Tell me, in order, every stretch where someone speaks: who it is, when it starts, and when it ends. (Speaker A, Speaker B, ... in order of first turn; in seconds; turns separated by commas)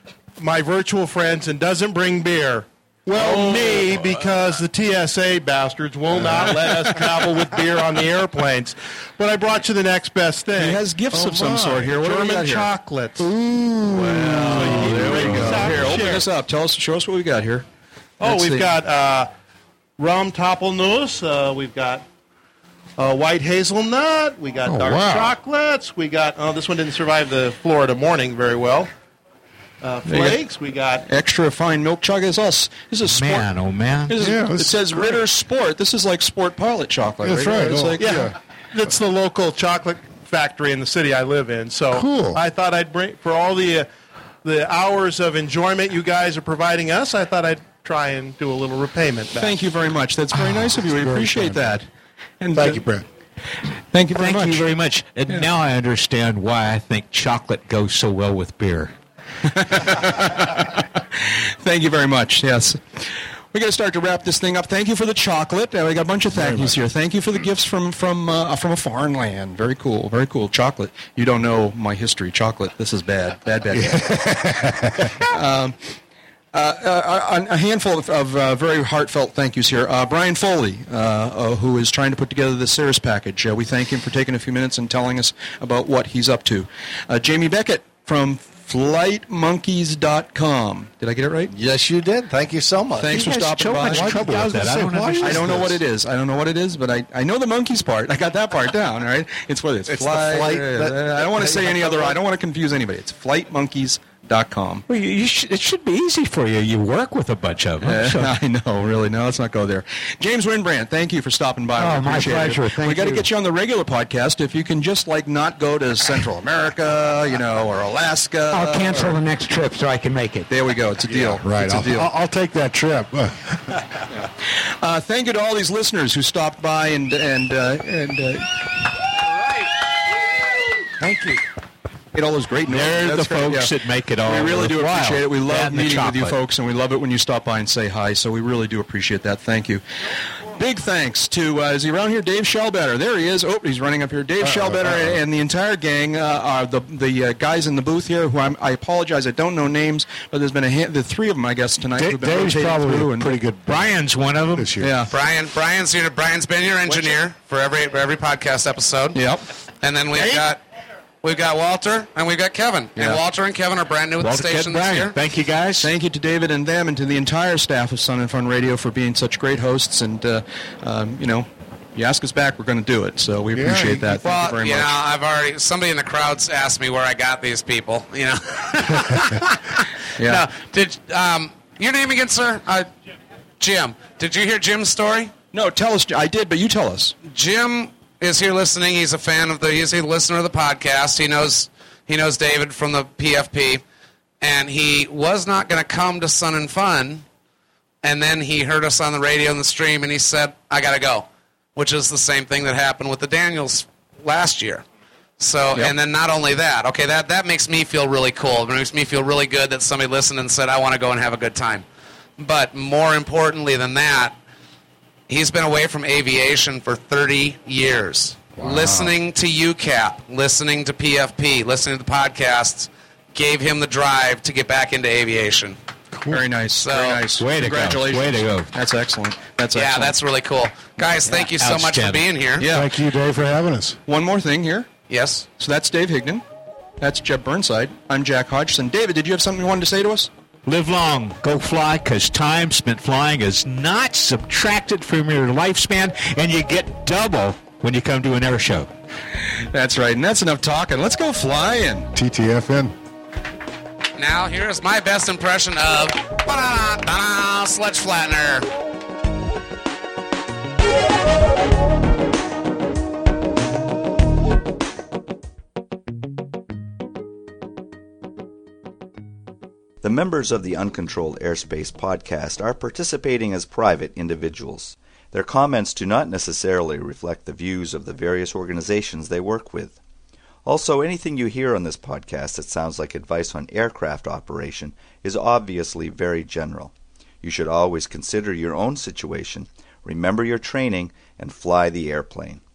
Speaker A: 0.4-13.3, Speaker B: 3.1-4.1, Speaker C: 6.1-6.5, Speaker B: 10.6-12.7, Speaker C: 13.2-15.9, Speaker B: 13.9-17.6, Speaker A: 14.3-16.3, Speaker A: 18.2-19.3, Speaker B: 18.2-18.7, Speaker A: 20.0-22.1, Speaker A: 23.0-28.9, Speaker C: 24.6-25.4, Speaker A: 29.8-31.1, Speaker B: 30.1-30.4, Speaker B: 31.1-33.5, Speaker D: 33.1-34.3, Speaker B: 34.1-38.2, Speaker C: 34.2-35.2, Speaker C: 37.2-38.3, Speaker A: 38.0-43.9, Speaker C: 41.9-42.4, Speaker A: 44.4-49.5, Speaker B: 49.3-51.9, Speaker C: 50.3-51.8, Speaker B: 52.4-52.8, Speaker C: 52.5-53.0, Speaker B: 53.9-54.7, Speaker D: 54.1-58.9, Speaker B: 59.4-74.3, Speaker C: 66.3-66.7, Speaker C: 73.7-75.2, Speaker B: 75.2-75.8, Speaker B: 76.5-91.5, Speaker E: 91.5-93.2, Speaker B: 93.0-94.4, Speaker D: 93.1-95.8, Speaker C: 93.9-95.5, Speaker E: 94.8-95.3, Speaker B: 95.2-104.8, Speaker E: 99.9-102.2, Speaker D: 104.9-108.3, Speaker B: 107.8-119.2, Speaker F: 111.8-113.3, Speaker F: 118.5-120.5, Speaker B: 120.5-122.1, Speaker C: 121.4-123.8, Speaker B: 124.1-128.6, Speaker B: 131.0-131.4, Speaker B: 132.1-153.4, Speaker D: 132.7-136.3, Speaker C: 144.4-145.2, Speaker C: 151.9-154.0, Speaker D: 153.7-154.8, Speaker C: 154.6-155.0, Speaker B: 154.8-155.1, Speaker G: 155.1-160.6, Speaker B: 159.1-159.4, Speaker D: 160.1-160.4, Speaker G: 161.2-165.2, Speaker B: 162.9-163.2, Speaker D: 164.2-165.9, Speaker B: 165.8-175.0, Speaker C: 173.5-174.2, Speaker G: 174.2-182.9, Speaker B: 180.2-180.4, Speaker G: 183.6-185.3, Speaker B: 185.5-187.2, Speaker G: 187.2-193.8, Speaker G: 194.4-197.2, Speaker G: 198.0-204.8, Speaker G: 205.4-211.8, Speaker G: 212.4-214.4, Speaker G: 215.3-225.8, Speaker C: 218.6-219.1, Speaker C: 226.1-226.4, Speaker B: 226.3-230.2, Speaker G: 226.8-227.3, Speaker D: 227.3-228.7, Speaker G: 229.7-232.7, Speaker D: 231.1-232.3, Speaker B: 232.6-232.9, Speaker C: 232.7-234.0, Speaker B: 234.1-234.9, Speaker G: 235.1-235.5, Speaker B: 235.6-236.4, Speaker B: 237.0-240.3, Speaker D: 240.6-248.9, Speaker B: 249.4-252.1, Speaker C: 252.1-252.9, Speaker G: 254.2-258.7, Speaker H: 270.0-280.0, Speaker H: 280.6-286.9, Speaker H: 287.4-292.6